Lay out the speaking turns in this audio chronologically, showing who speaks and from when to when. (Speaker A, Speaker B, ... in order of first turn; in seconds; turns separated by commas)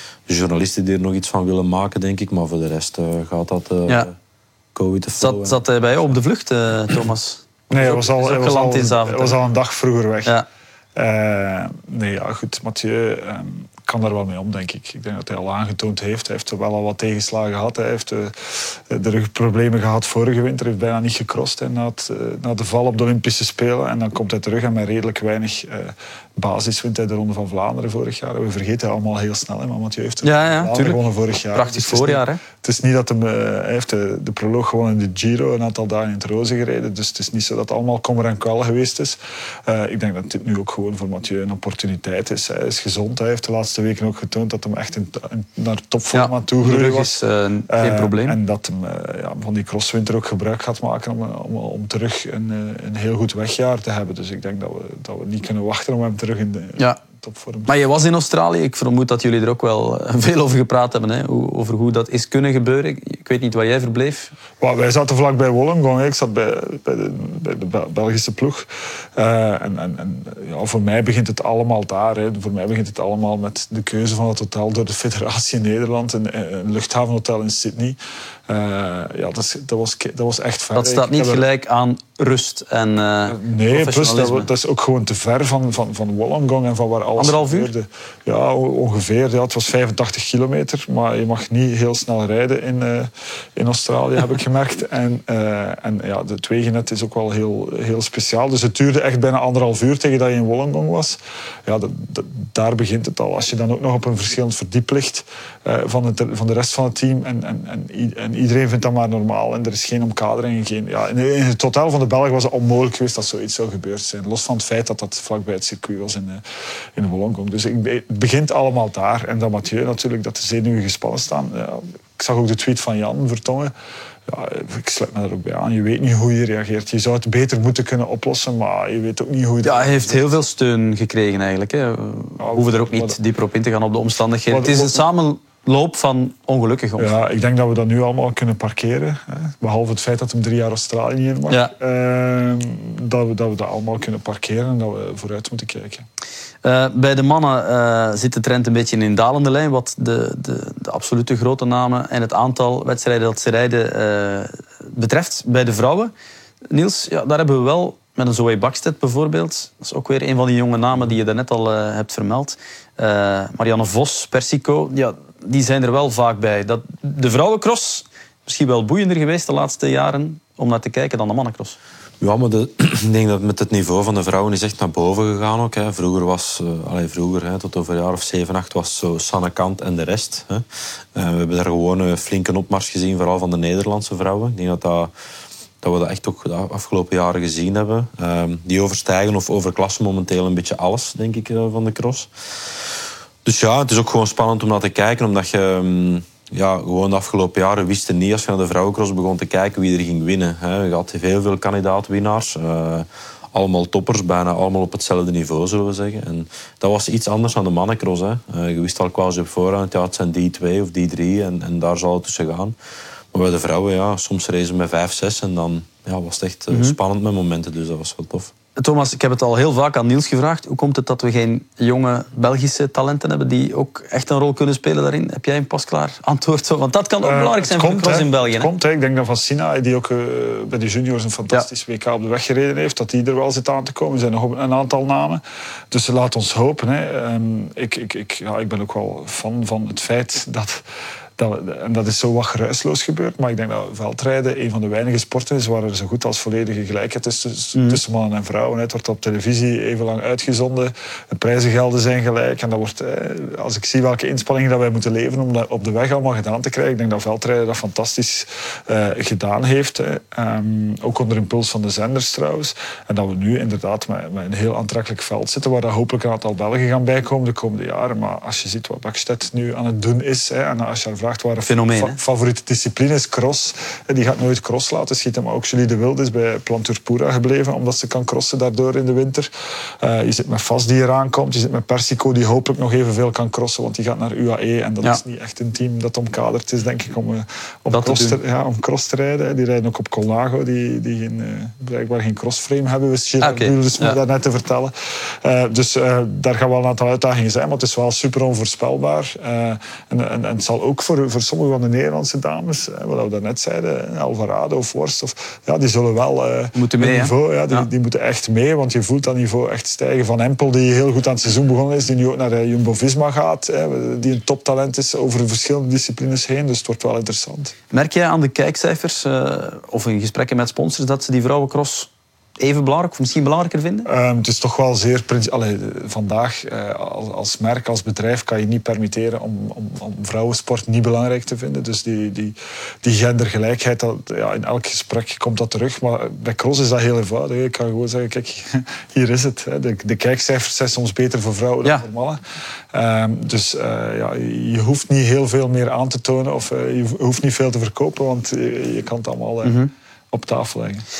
Speaker A: 0.3-4.1, Speaker A: 4.7-5.6, Speaker B: 5.2-9.4, Speaker C: 7.7-10.3, Speaker C: 10.9-47.2, Speaker B: 30.2-31.0, Speaker B: 31.5-32.4, Speaker B: 46.1-48.4, Speaker C: 47.7-57.7, Speaker B: 57.6-64.3, Speaker C: 64.6-81.4, Speaker B: 80.7-84.5, Speaker C: 83.3-116.4, Speaker B: 87.2-87.7, Speaker C: 117.0-123.7, Speaker C: 124.3-130.3, Speaker B: 129.6-137.1, Speaker C: 132.4-133.2, Speaker C: 134.5-135.0, Speaker C: 137.0-146.1, Speaker B: 146.6-156.1, Speaker B: 156.7-171.8, Speaker A: 172.2-185.1, Speaker A: 185.8-192.3, Speaker A: 193.4-212.7, Speaker A: 213.3-218.5, Speaker B: 216.7-217.0, Speaker B: 218.8-228.7, Speaker C: 227.2-240.8, Speaker C: 241.4-279.5, Speaker B: 247.7-248.0, Speaker B: 271.7-272.2, Speaker C: 280.0-317.7, Speaker B: 287.9-288.4, Speaker B: 293.4-294.2, Speaker B: 306.7-307.9, Speaker B: 317.9-324.1, Speaker C: 324.1-342.4, Speaker C: 342.9-349.8, Speaker B: 349.6-349.9, Speaker C: 350.3-351.0